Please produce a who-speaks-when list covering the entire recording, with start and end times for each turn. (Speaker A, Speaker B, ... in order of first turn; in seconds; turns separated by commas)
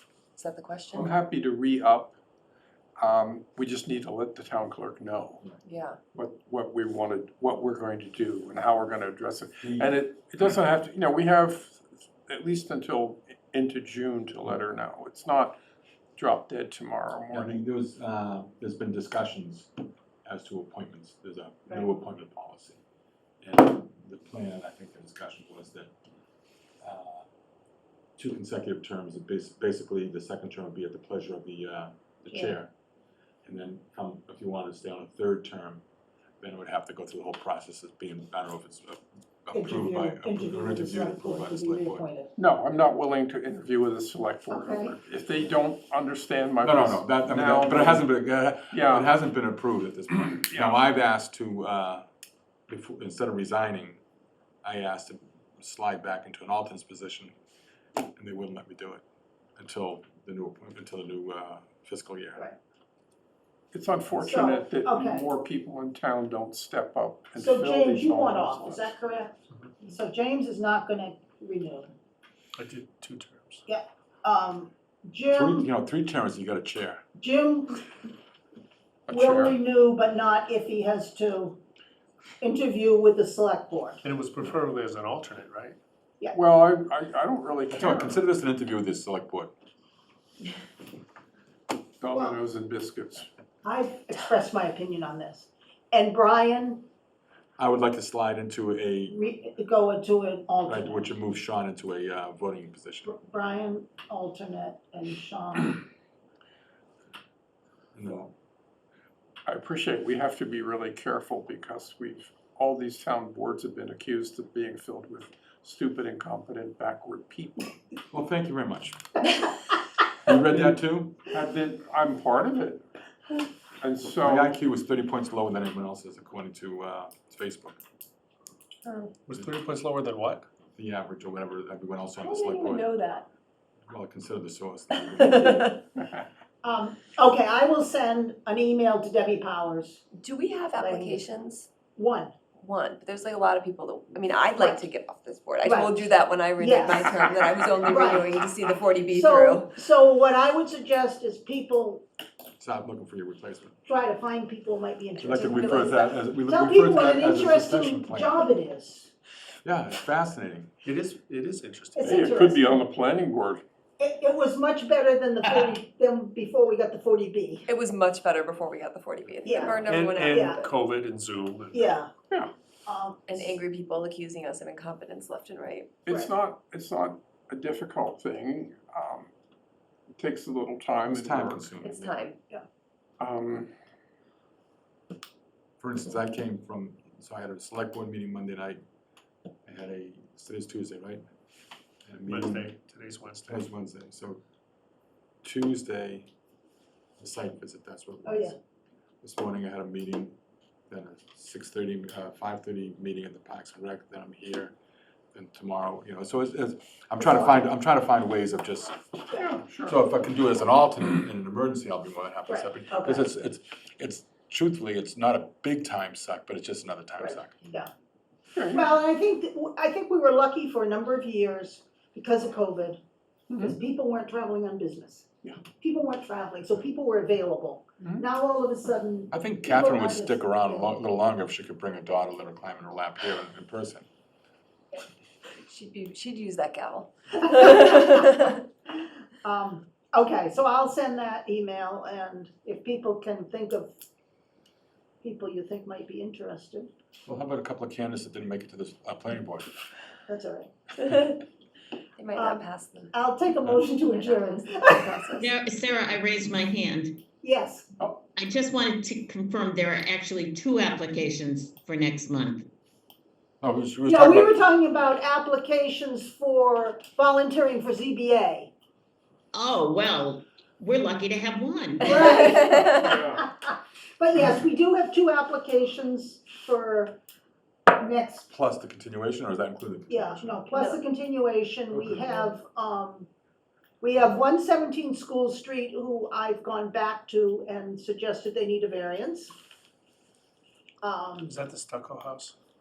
Speaker A: 0.4-1.1, Speaker B: 0.9-2.1, Speaker B: 3.0-5.4, Speaker A: 5.6-6.0, Speaker B: 6.1-15.6, Speaker C: 9.6-9.9, Speaker B: 16.1-17.6, Speaker C: 17.3-19.7, Speaker C: 20.2-22.8, Speaker C: 23.4-25.9, Speaker C: 26.8-27.2, Speaker C: 28.2-32.7, Speaker C: 33.4-35.8, Speaker C: 36.4-42.0, Speaker D: 39.5-42.3, Speaker B: 42.4-48.1, Speaker D: 44.5-45.0, Speaker C: 46.6-52.0, Speaker B: 48.7-49.2, Speaker B: 50.2-50.8, Speaker C: 52.7-54.0, Speaker C: 54.6-57.3, Speaker C: 58.1-59.0, Speaker C: 59.6-62.5, Speaker B: 63.7-68.9, Speaker D: 64.2-65.3, Speaker D: 67.3-71.9, Speaker E: 72.5-73.6, Speaker D: 73.7-75.7, Speaker C: 75.3-77.0, Speaker D: 77.2-77.8, Speaker B: 79.1-79.5, Speaker D: 79.1-81.6, Speaker D: 82.4-84.0, Speaker E: 84.0-85.8, Speaker B: 86.3-88.2, Speaker C: 87.7-89.5, Speaker B: 92.0-93.3, Speaker D: 92.1-92.4, Speaker D: 93.6-96.8, Speaker C: 97.6-99.2, Speaker D: 99.1-101.1, Speaker C: 100.7-103.1, Speaker D: 103.0-105.8, Speaker C: 107.9-108.3, Speaker B: 109.5-117.8, Speaker C: 118.1-119.1, Speaker C: 120.2-121.2, Speaker B: 121.2-122.8, Speaker B: 123.8-124.6, Speaker C: 124.2-127.8, Speaker A: 128.8-129.1, Speaker E: 129.2-130.4, Speaker C: 130.8-132.9, Speaker A: 132.2-133.3, Speaker C: 133.9-135.6, Speaker D: 135.2-135.8, Speaker D: 136.6-140.0, Speaker A: 140.2-141.7, Speaker D: 140.8-141.3, Speaker D: 141.9-142.3, Speaker A: 142.6-149.8, Speaker D: 144.6-144.8, Speaker D: 145.6-147.1, Speaker D: 147.8-148.3, Speaker D: 149.1-152.0, Speaker C: 152.6-153.8, Speaker D: 153.9-159.1, Speaker C: 155.2-158.4, Speaker C: 159.6-160.7, Speaker E: 160.8-162.2, Speaker D: 161.9-162.8, Speaker B: 162.0-163.6, Speaker D: 164.0-167.7, Speaker A: 167.7-170.7, Speaker D: 169.4-170.6, Speaker E: 169.8-171.8, Speaker D: 171.7-172.1, Speaker D: 172.8-173.6, Speaker A: 173.3-175.9, Speaker B: 176.0-179.3, Speaker B: 180.1-181.7, Speaker C: 181.1-182.1, Speaker A: 181.8-182.4, Speaker B: 183.2-183.7, Speaker C: 185.8-188.8, Speaker C: 189.6-191.2, Speaker C: 192.1-192.7, Speaker E: 192.2-193.7, Speaker C: 193.5-194.4, Speaker C: 195.4-196.3, Speaker C: 197.2-198.5, Speaker D: 198.2-198.6, Speaker C: 199.2-200.3, Speaker C: 200.9-204.7, Speaker C: 205.3-209.0, Speaker B: 209.3-209.9, Speaker C: 209.8-217.6, Speaker D: 212.5-213.3, Speaker D: 217.2-217.9, Speaker B: 218.6-218.9, Speaker D: 218.7-223.0, Speaker D: 223.6-225.2, Speaker D: 225.8-230.9, Speaker C: 229.3-234.0, Speaker A: 235.7-238.5, Speaker D: 237.3-238.4, Speaker D: 239.4-243.9, Speaker D: 245.2-246.9, Speaker C: 247.2-249.7, Speaker D: 250.3-250.7, Speaker A: 252.2-253.1, Speaker D: 252.3-255.3, Speaker A: 253.9-255.5, Speaker F: 255.4-257.2, Speaker D: 257.4-257.9, Speaker F: 258.4-262.7, Speaker C: 263.6-264.6, Speaker D: 264.1-268.7, Speaker F: 269.5-272.2, Speaker D: 272.0-277.2, Speaker B: 273.0-273.4, Speaker D: 277.9-278.5, Speaker C: 278.5-280.6, Speaker D: 280.1-283.3, Speaker D: 284.0-289.5, Speaker D: 291.0-291.5, Speaker E: 291.4-292.5